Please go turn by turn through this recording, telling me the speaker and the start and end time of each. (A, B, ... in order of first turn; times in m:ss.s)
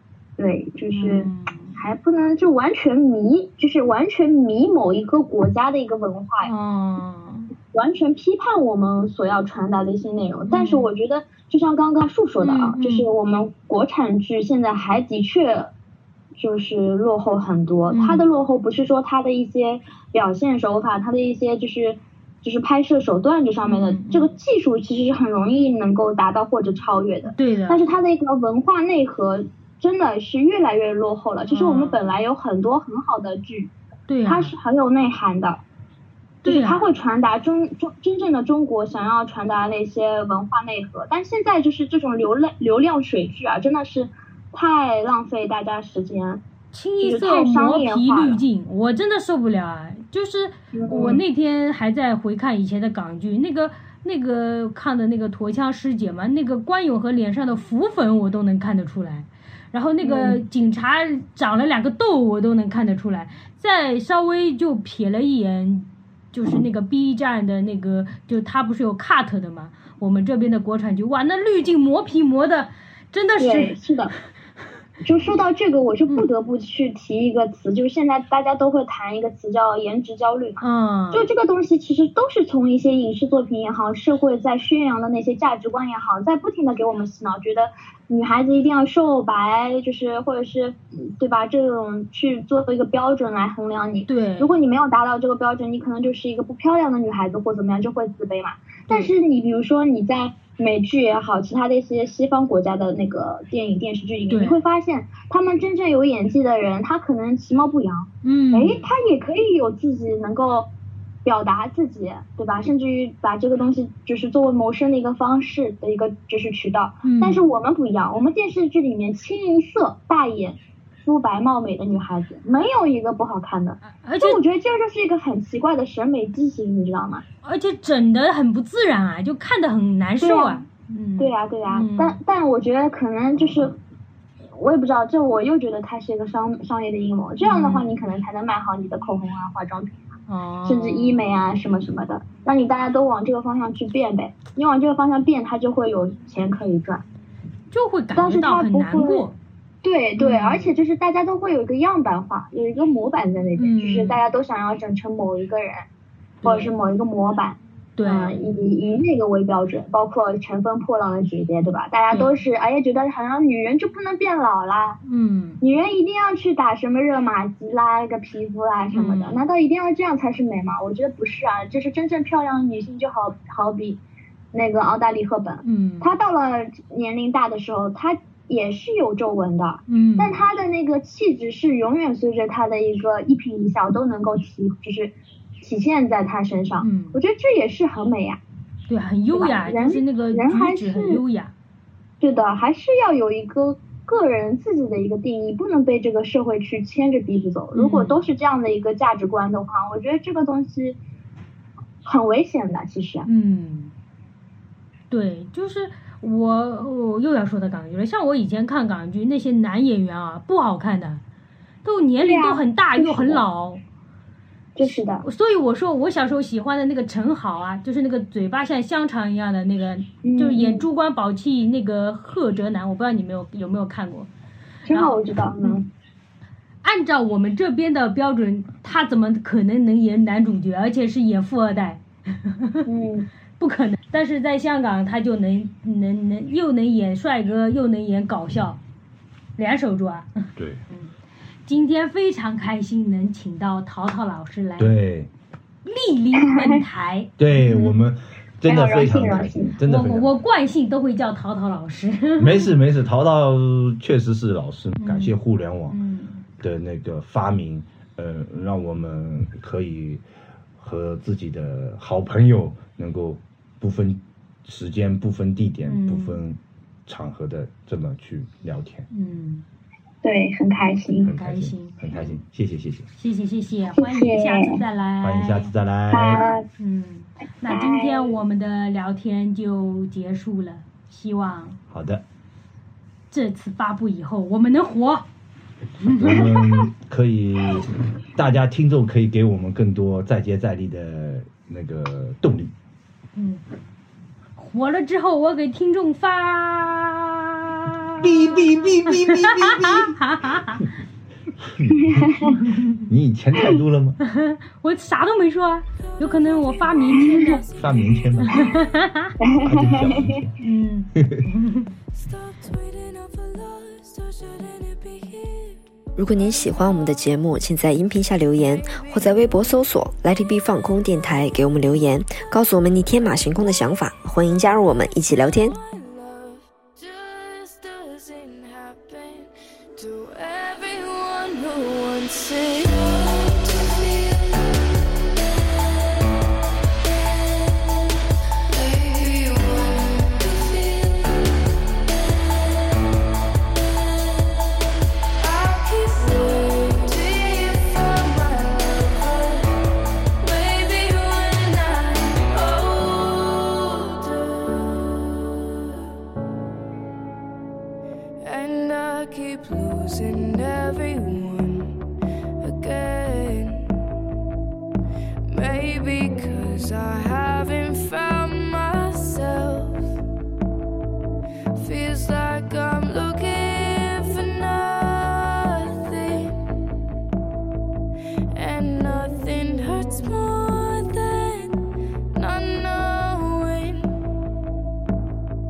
0:00.4-0:06.5 A
0:00.9-0:01.8 B
0:06.4-0:07.5 B
0:07.7-0:15.7 A
0:10.5-0:10.9 B
0:12.4-0:13.1 B
0:16.4-0:33.7 A
0:17.9-0:18.2 B
0:23.6-0:24.4 B
0:27.2-0:27.8 B
0:31.5-0:32.0 B
0:34.1-0:34.5 B
0:34.2-0:35.6 A
0:36.4-0:36.9 B
0:36.4-0:46.4 A
0:46.7-1:13.8 B
0:47.0-0:48.4 A
0:50.7-0:51.2 A
1:00.0-1:00.4 A
1:13.4-1:14.1 A
1:15.0-1:50.7 A
1:20.6-1:21.3 B
1:34.1-1:34.6 B
1:44.3-1:44.6 B
1:48.2-1:48.9 B
1:51.2-2:07.2 A
1:57.0-1:57.4 B
2:03.8-2:04.4 B
2:07.4-2:12.2 B
2:10.2-2:10.6 A
2:11.2-2:13.8 A
2:14.5-2:20.1 A
2:17.4-2:17.9 B
2:20.3-2:21.2 B
2:20.6-2:27.0 A
2:27.7-2:29.4 B
2:28.2-2:29.3 A
2:29.8-2:35.8 A
2:30.2-2:30.7 B
2:33.6-2:34.2 B
2:36.4-2:36.7 B
2:36.4-2:45.0 A
2:38.0-2:38.4 B
2:42.1-2:42.4 B
2:45.0-2:45.6 B
2:45.6-2:54.0 A
2:48.9-2:49.4 B
2:54.5-3:08.4 A
2:55.6-2:56.1 B
2:59.9-3:00.4 B
3:06.8-3:07.2 B
3:08.9-3:11.5 B
3:09.3-3:11.2 A
3:12.2-3:21.0 A
3:17.7-3:18.2 B
3:22.0-3:23.2 A
3:23.2-3:23.9 B
3:25.1-3:31.2 B
3:31.8-3:33.8 B
3:32.2-3:33.4 A
3:34.8-3:35.2 A
3:34.8-3:44.3 B
3:40.2-3:40.8 A
3:44.9-3:45.9 A
3:44.9-3:45.7 B
3:46.8-3:52.9 B
3:52.8-3:53.3 A
3:53.6-3:58.8 B
3:59.6-4:01.1 B
4:00.6-4:00.8 C
4:01.6-4:05.0 B
4:04.8-4:05.3 C
4:05.8-4:08.0 B
4:07.4-4:10.3 C
4:08.6-4:09.7 A
4:09.8-4:12.7 B
4:12.4-4:16.0 C
4:15.0-4:15.4 B
4:15.9-4:16.4 B
4:16.6-4:20.2 C
4:20.8-4:29.1 C
4:25.8-4:26.4 B
4:29.1-4:29.6 B
4:30.2-4:31.3 A
4:31.2-4:33.1 C
4:31.4-4:32.3 B
4:33.2-4:35.7 B
4:34.0-4:34.8 A
4:35.2-4:36.4 C
4:36.1-4:36.6 A
4:36.8-4:41.8 B
4:37.7-4:38.4 A
4:41.9-4:42.2 C
4:43.3-4:45.2 B
4:46.0-4:46.9 B
4:46.2-4:52.7 C
4:53.4-4:53.6 B
4:54.6-5:00.9 B
4:58.2-5:00.2 C
5:01.6-5:04.2 C
5:02.0-5:02.6 A
5:02.5-5:03.0 B
5:04.2-5:07.6 B
5:06.1-5:08.5 D
5:07.7-5:08.7 C
5:08.4-5:09.3 B
5:09.4-5:10.5 A
5:09.6-5:10.5 C
5:10.6-5:11.9 B
5:11.2-5:11.4 C
5:12.1-5:15.8 D
5:16.2-5:25.7 E
5:16.3-5:17.4 D
5:18.5-5:19.8 D
5:25.1-5:35.3 D
5:38.7-5:41.9 D
5:45.4-5:49.8 D
5:50.4-5:56.0 D
5:58.4-6:02.0 D
6:02.6-6:04.0 D
6:05.4-6:10.2 D
6:11.7-6:16.7 D
6:18.5-6:24.2 D